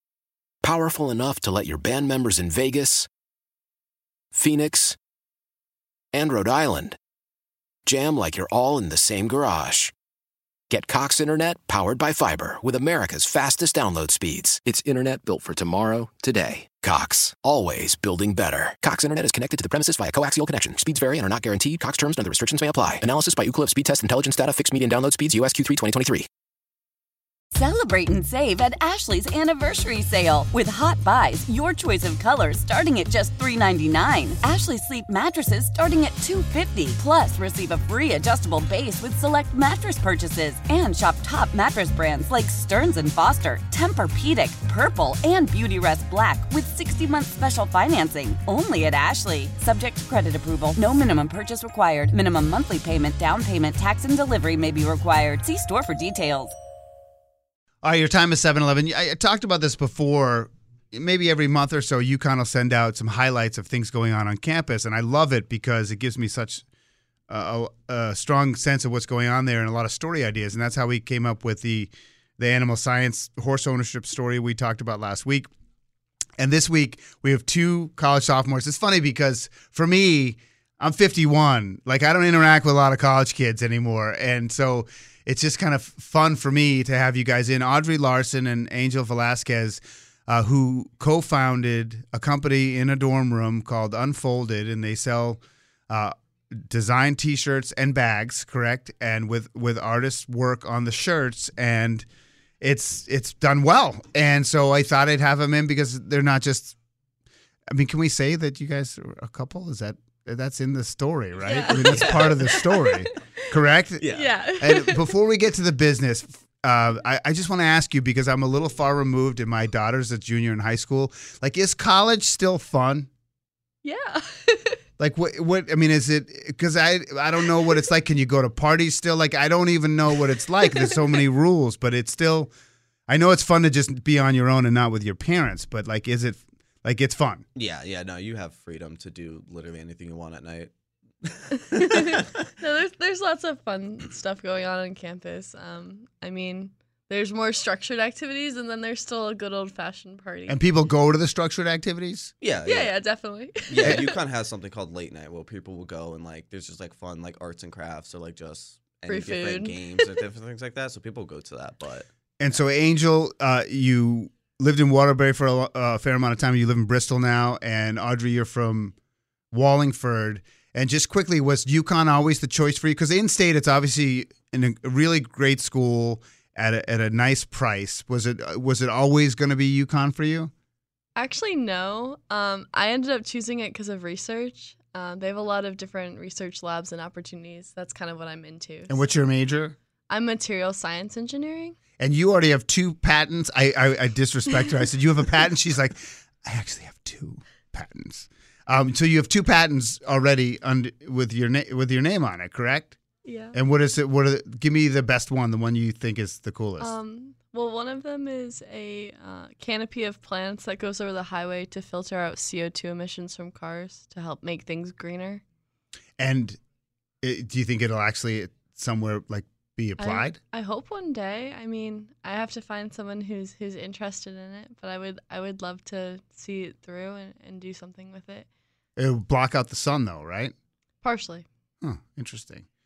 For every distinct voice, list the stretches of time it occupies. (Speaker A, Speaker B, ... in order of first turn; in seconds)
Speaker A: 0.6-3.1, 4.3-5.0, 6.1-7.0, 7.8-9.9, 10.7-26.3
Speaker B: 27.5-56.5
Speaker C: 57.8-66.6, 67.3-75.5, 76.4-102.0, 102.6-106.8, 107.7-123.1, 125.0-132.5, 133.1-137.4, 150.5-152.3, 153.8-154.1, 162.4-168.9, 169.5-180.5, 188.9-189.8, 192.0-203.0, 203.5-206.9, 216.2-216.6, 217.2-220.4, 229.0-230.5, 231.8-232.7
Speaker D: 111.4-113.0, 114.1-115.1, 123.8-124.8, 141.8-150.6, 152.7-154.2, 159.1-160.2, 181.2-189.0, 190.1-191.8, 203.2-203.6, 206.8-215.4, 220.0-228.5, 231.0-231.4
Speaker E: 111.9-112.2, 114.0-114.3, 137.5-140.7, 141.2-142.3, 152.4-152.9, 153.7-162.1